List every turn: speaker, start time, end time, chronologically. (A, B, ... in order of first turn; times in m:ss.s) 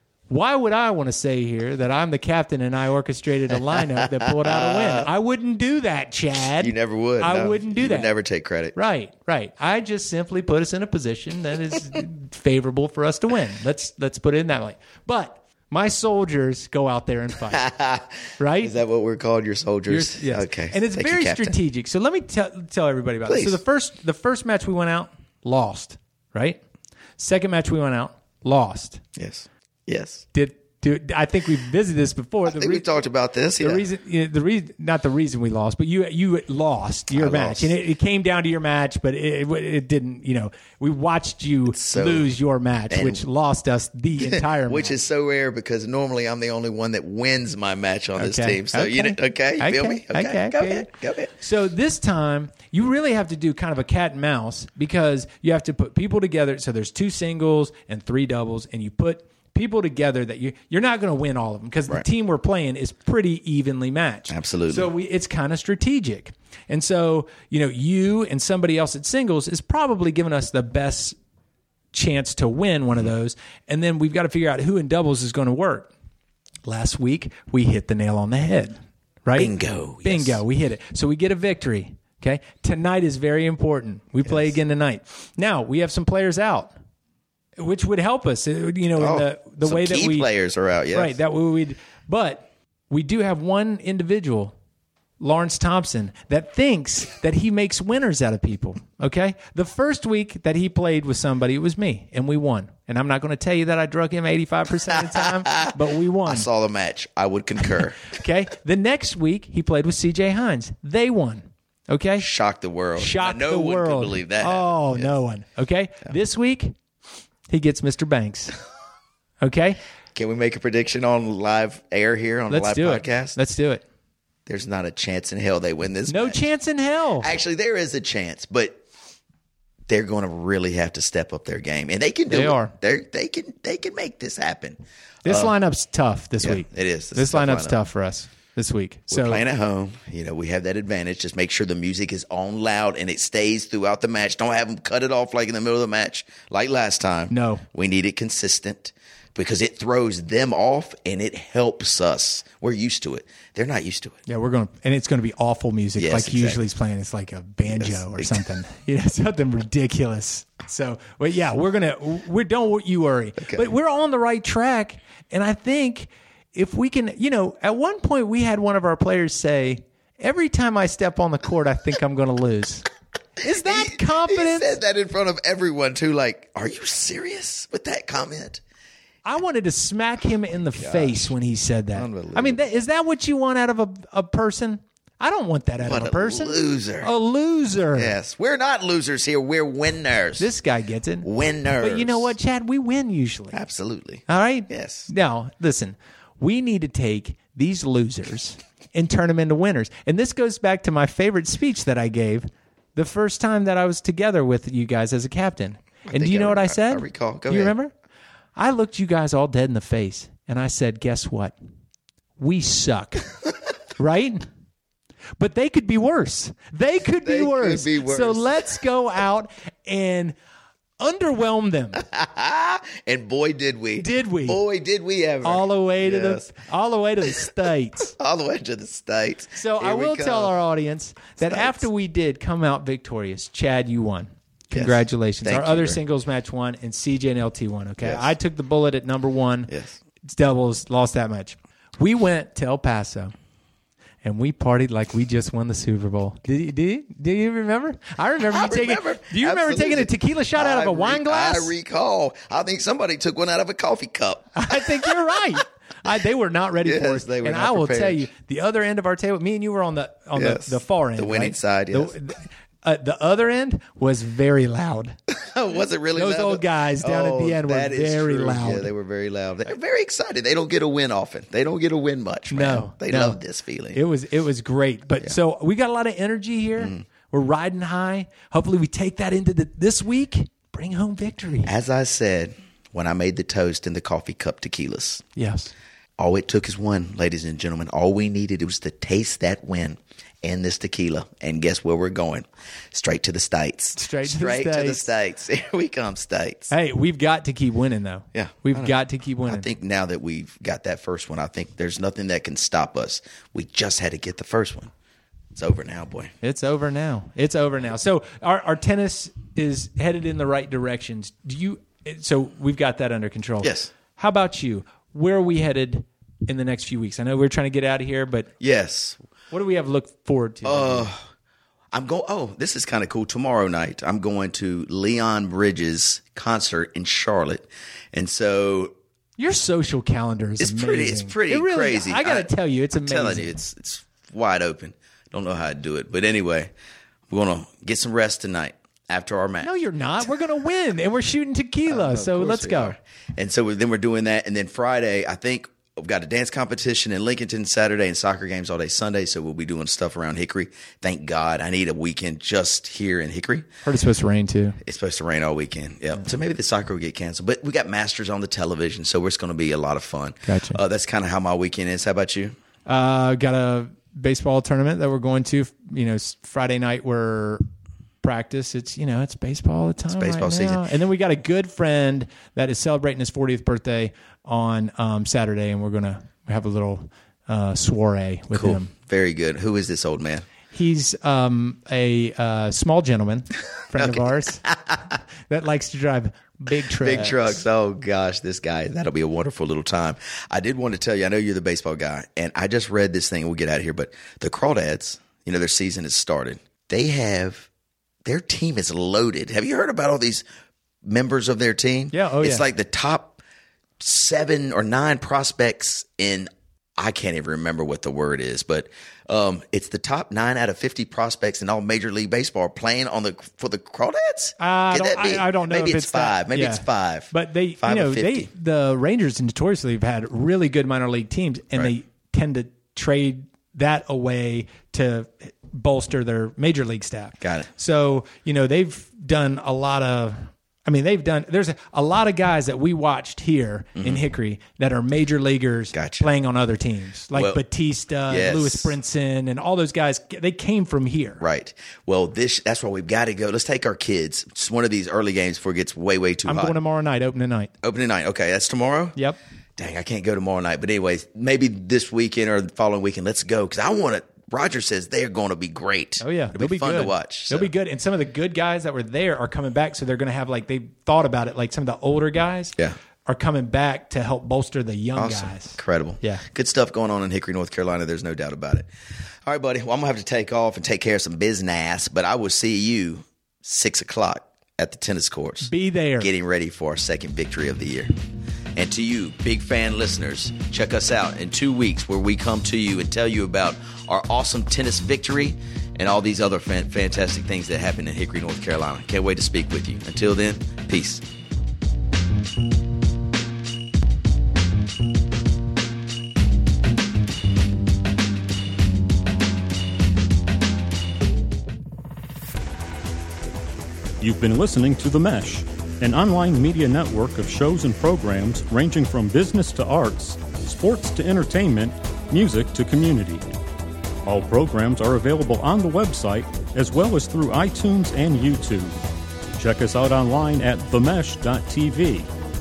0:00.3-0:08.1 A
0:03.7-0:05.1 B
0:06.6-0:08.7 B
0:08.7-0:17.7 A
0:17.5-0:21.6 B
0:18.4-0:18.8 A
0:19.9-0:26.6 A
0:23.3-0:23.6 B
0:27.2-0:29.0 A
0:29.2-0:30.2 B
0:30.3-0:32.8 A
0:32.4-0:33.8 B
0:33.6-0:45.0 A
0:37.1-0:37.7 B
0:41.7-0:42.3 B
0:42.9-0:43.2 B
0:44.2-0:51.3 B
0:48.2-1:11.2 A
1:04.3-1:04.9 B
1:11.9-1:15.9 A
1:16.6-1:19.5 A
1:19.4-1:20.4 B
1:20.0-1:26.7 A
1:27.6-1:30.3 A
1:29.0-1:31.2 B
1:30.9-1:34.5 A
1:35.2-1:46.5 A
1:45.1-1:48.1 B
1:48.0-1:52.3 A
1:52.2-1:55.1 B
1:53.0-1:56.7 A
1:57.5-1:58.5 A
1:59.4-1:59.8 A
2:00.1-2:03.4 B
2:02.5-2:03.8 A
2:04.4-2:06.4 B
2:06.1-2:07.3 A
2:07.2-2:08.8 B
2:09.9-2:15.5 B
2:12.3-2:12.7 A
2:15.2-2:19.4 A
2:16.4-2:17.8 B
2:19.1-2:34.2 B
2:27.3-2:27.6 A
2:34.3-2:52.9 A
2:36.0-2:36.6 B
2:37.7-2:38.4 B
2:43.4-2:43.7 B
2:53.4-2:54.7 A
2:53.4-2:58.6 B
2:59.2-3:08.1 A
3:00.7-3:01.3 B
3:01.9-3:02.6 B
3:05.8-3:07.1 B
3:07.9-3:10.5 B
3:10.4-3:11.3 A
3:11.2-3:12.3 B
3:11.8-3:13.6 A
3:13.5-3:15.1 B
3:14.3-3:27.9 A
3:26.1-3:27.7 B
3:28.6-3:31.5 A
3:32.4-3:33.3 A
3:34.0-3:34.4 A
3:35.4-3:40.4 A
3:37.2-3:38.6 B
3:41.0-3:42.0 A
3:42.0-3:46.5 B
3:44.0-3:44.6 A
3:45.4-3:48.1 A
3:48.0-3:50.5 B
3:49.6-3:59.7 A
3:51.4-3:51.8 B
3:54.7-3:56.0 B
3:58.0-3:58.3 B
3:59.7-4:00.0 B
4:00.2-4:03.3 A
4:04.2-4:11.7 A
4:08.4-4:15.3 B
4:14.5-4:25.2 A
4:16.8-4:18.3 B
4:20.3-4:22.2 B
4:25.3-4:34.0 B
4:26.1-4:28.9 A
4:32.5-4:33.4 A
4:33.9-4:41.7 A
4:41.6-4:45.2 B
4:45.4-4:45.7 A
4:46.2-4:56.7 B
4:54.0-4:55.0 A
4:56.7-4:59.7 A
4:58.3-5:04.9 B
5:05.5-5:06.3 B
5:06.4-5:18.5 A
5:13.6-5:13.9 B
5:18.6-5:19.2 B
5:19.5-5:21.1 A
5:20.6-5:21.3 B
5:21.9-5:28.9 B
5:29.4-5:33.5 A
5:30.6-5:32.5 B
5:33.0-5:36.7 B
5:37.3-5:39.7 B
5:39.6-5:43.0 A
5:41.9-5:53.7 B
5:53.8-5:54.8 A
5:54.8-6:02.6 B
6:00.4-6:00.8 A
6:02.8-6:07.6 A
6:08.2-6:18.9 A
6:10.1-6:10.8 B
6:18.5-6:20.4 B
6:20.7-6:24.6 A
6:24.0-6:25.0 B
6:25.5-6:27.6 A
6:27.0-6:37.7 B
6:38.2-6:40.4 B
6:41.0-6:43.4 B
6:42.1-6:42.6 A
6:44.0-6:58.5 B
6:54.6-7:21.4 A
7:07.4-7:07.7 B
7:14.0-7:14.2 B
7:15.9-7:16.2 B
7:17.3-7:17.6 B
7:18.3-7:19.0 B
7:21.4-7:26.8 B
7:26.4-7:27.7 A
7:27.8-7:29.2 B
7:29.8-7:37.7 B
7:36.2-7:46.4 A
7:45.2-7:48.9 B
7:49.4-7:58.1 B
7:55.6-7:56.3 A
7:58.7-8:11.2 B
8:24.2-8:33.4 C
8:34.2-8:39.0 C
8:39.6-8:42.3 C